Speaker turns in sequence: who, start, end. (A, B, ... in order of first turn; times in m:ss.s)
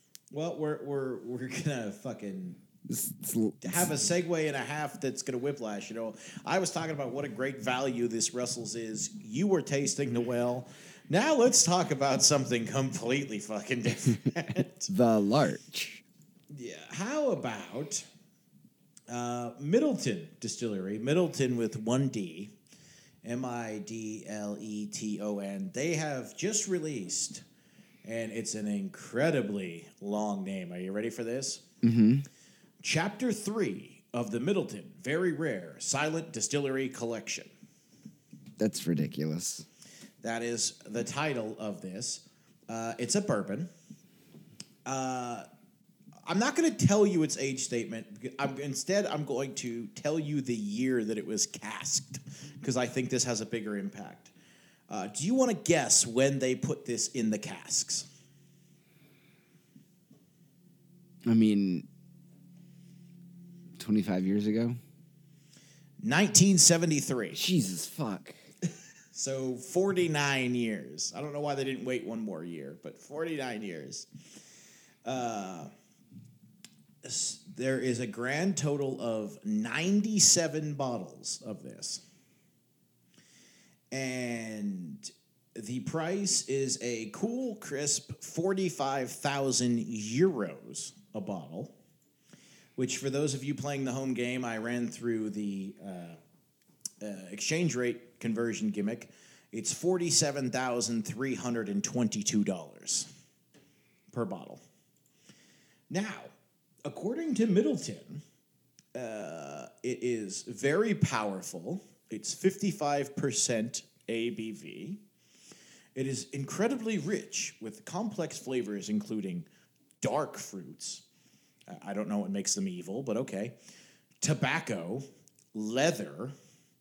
0:00.3-0:02.6 A
0:02.9-0:03.9 B
0:03.6-0:14.9 A
0:14.9-0:16.0 B
0:16.5-0:18.0 A
0:19.1-0:22.5 A
0:23.2-0:27.4 A
0:28.0-0:31.6 A
0:31.8-0:32.2 B
0:32.8-0:37.5 A
0:38.6-0:39.6 B
0:40.2-0:43.7 A
0:44.8-0:45.4 A
0:46.2-0:54.3 A
0:54.9-0:58.1 A
1:01.3-1:01.9 B
1:03.8-1:04.8 B
1:06.0-1:07.4 A
1:07.3-1:08.4 B
1:09.1-1:14.1 A
1:15.0-1:15.7 A
1:17.0-1:22.0 A
1:23.9-1:31.7 A
1:32.8-1:36.2 A
1:37.0-1:43.1 A
1:44.1-1:44.6 A
1:45.9-1:46.3 A
1:46.8-1:48.2 A
1:48.9-1:55.0 A
1:55.9-1:59.5 A
2:00.0-2:01.0 A
2:01.7-2:03.6 A
2:04.2-2:06.3 A